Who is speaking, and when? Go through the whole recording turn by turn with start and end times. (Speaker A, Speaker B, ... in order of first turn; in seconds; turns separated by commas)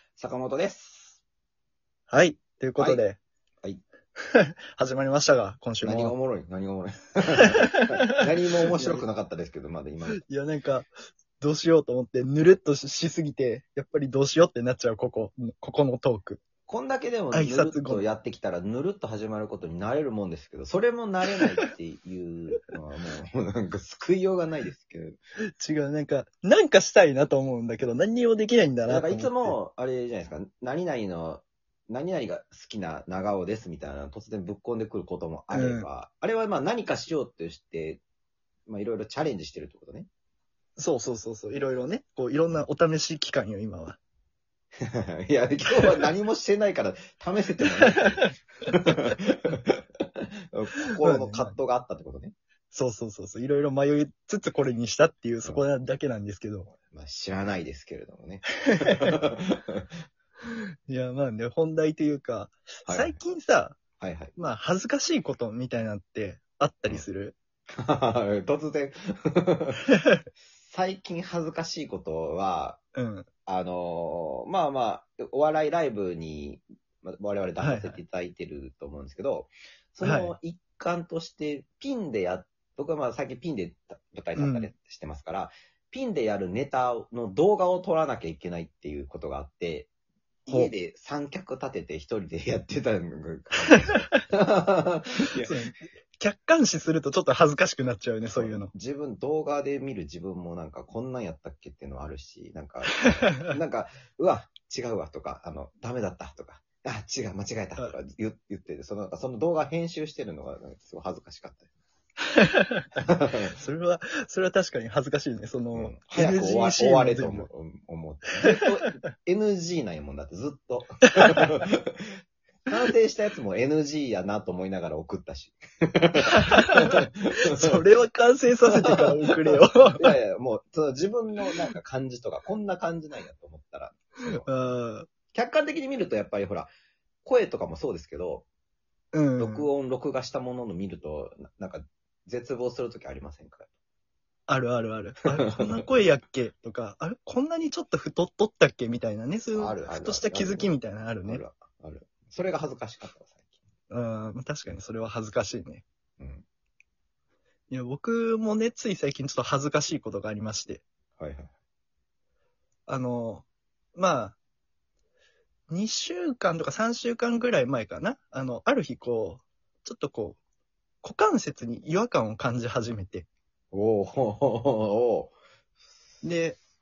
Speaker A: 0.1-1.2, Speaker B: 2.1-3.2, Speaker B: 4.2-6.1, Speaker A: 5.8-10.2, Speaker B: 7.5-7.9, Speaker B: 8.7-9.0, Speaker B: 10.2-10.9, Speaker B: 11.4-16.4, Speaker A: 16.7-25.2, Speaker B: 17.3-18.0, Speaker B: 25.6-29.6, Speaker A: 28.9-38.0, Speaker B: 35.5-35.9, Speaker A: 38.6-40.1, Speaker B: 40.8-44.0, Speaker A: 44.8-52.3, Speaker B: 51.0-51.5, Speaker B: 52.7-56.7, Speaker A: 56.7-59.9, Speaker B: 58.9-59.1, Speaker B: 60.9-63.8, Speaker A: 62.9-63.2, Speaker A: 64.0-64.3, Speaker B: 64.3-67.3, Speaker A: 67.7-69.8, Speaker A: 70.5-72.8, Speaker B: 72.9-73.3, Speaker A: 73.5-89.9, Speaker B: 77.6-78.0, Speaker B: 80.0-80.3, Speaker B: 84.4-84.7, Speaker A: 90.5-95.5, Speaker B: 90.5-90.7, Speaker B: 93.7-94.0, Speaker B: 95.4-98.7, Speaker A: 98.3-111.7, Speaker B: 103.2-103.5, Speaker B: 112.3-117.5, Speaker A: 113.0-113.6, Speaker A: 115.7-122.1, Speaker B: 118.5-118.9, Speaker A: 122.7-127.8, Speaker B: 126.3-126.7, Speaker B: 127.5-130.2, Speaker A: 128.8-134.5, Speaker B: 134.3-135.1, Speaker A: 135.3-136.7, Speaker A: 137.2-138.4, Speaker B: 139.1-139.7, Speaker A: 139.4-143.7, Speaker B: 144.5-151.4, Speaker A: 145.3-145.9, Speaker A: 149.5-153.4, Speaker B: 153.9-155.8, Speaker A: 156.2-156.4, Speaker B: 157.7-160.8, Speaker A: 161.2-161.5, Speaker B: 162.9-164.3, Speaker B: 165.7-170.4, Speaker B: 171.0-173.3, Speaker A: 173.7-175.3, Speaker B: 176.2-176.6